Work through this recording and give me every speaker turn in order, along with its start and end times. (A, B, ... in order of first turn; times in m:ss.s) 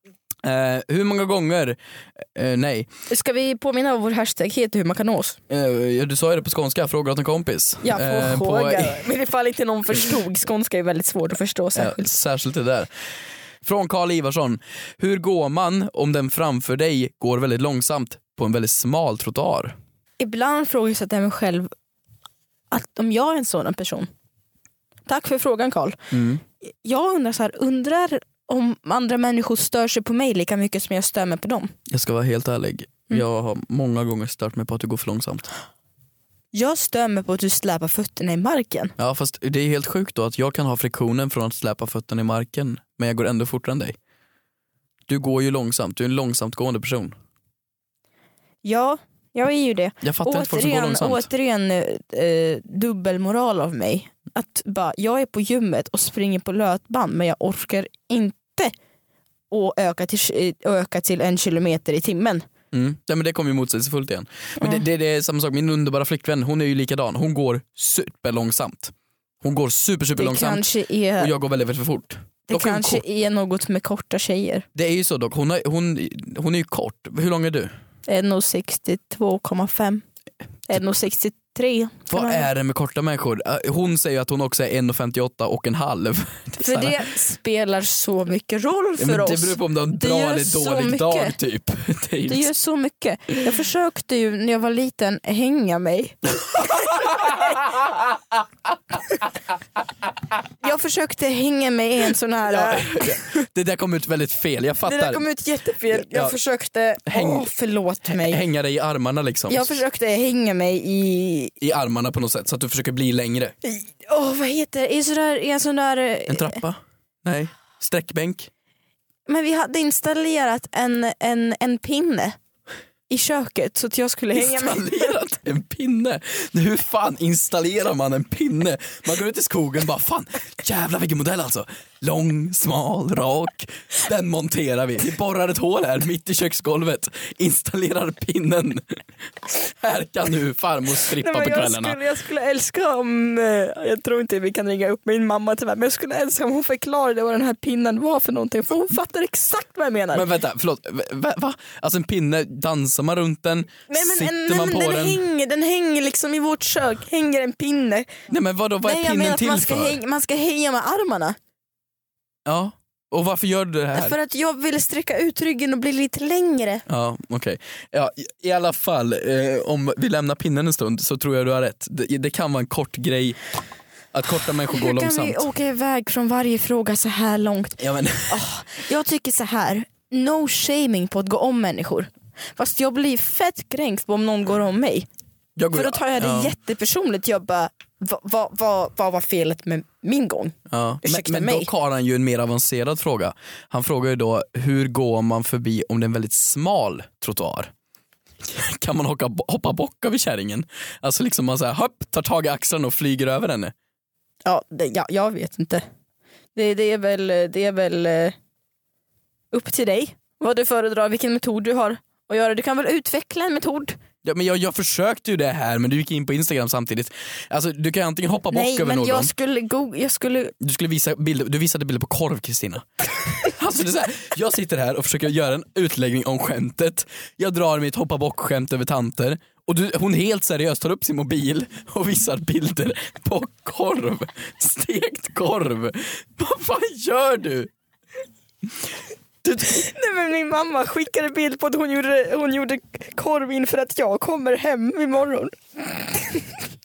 0:00.4-0:02.9 A
0:03.1-0:05.4 B
0:05.5-0:09.0 A
0:07.8-0:12.1 B
0:11.7-0:12.9 A
0:13.6-0:19.7 A
0:20.2-0:21.7 B
0:22.7-0:24.1 B
0:25.1-0:26.1 B
0:26.1-0:26.4 A
0:26.6-0:31.7 B
0:31.9-0:35.5 A
0:36.5-0:38.9 B
0:39.0-0:44.0 A
0:45.1-0:47.1 A
0:48.6-0:58.7 B
0:50.0-0:51.3 A
0:59.5-1:02.4 B
1:02.7-1:10.7 A
1:10.2-1:11.3 B
1:11.2-1:13.0 A
1:12.5-1:14.6 B
1:14.7-1:17.7 A
1:18.1-1:20.0 B
1:20.7-1:22.5 B
1:22.1-1:27.0 A
1:26.6-1:31.4 B
1:29.0-1:32.5 A
1:32.2-1:37.7 B
1:36.6-1:37.8 A
1:40.6-1:43.4 B
1:42.5-1:45.2 A
1:44.8-1:48.4 B
1:45.9-1:46.4 A
1:47.0-1:47.5 A
1:48.1-1:49.8 A
1:49.5-1:51.5 B
1:51.6-1:53.5 A
1:53.6-1:56.6 B
1:56.3-1:58.5 A
1:59.3-2:02.4 B
2:03.1-2:05.1 B
2:04.3-2:22.0 A
2:21.2-2:30.2 B
2:30.1-2:35.2 A
2:33.9-2:38.1 B
2:38.3-2:40.0 A
2:38.8-2:41.4 B
2:42.4-2:44.2 A
2:43.9-2:46.8 B
2:46.9-2:53.4 A
2:54.1-2:55.4 A
2:54.7-3:05.1 B
2:57.8-2:58.4 A
3:05.6-3:06.5 A
3:05.7-3:11.7 B
3:10.7-3:17.7 A
3:18.4-3:23.7 A
3:24.4-3:25.8 B
3:26.5-3:28.3 B
3:29.5-3:34.0 B
3:34.2-3:39.3 A
3:38.5-3:40.5 B
3:40.6-3:57.7 A
3:59.4-3:59.8 A
3:59.6-4:06.5 B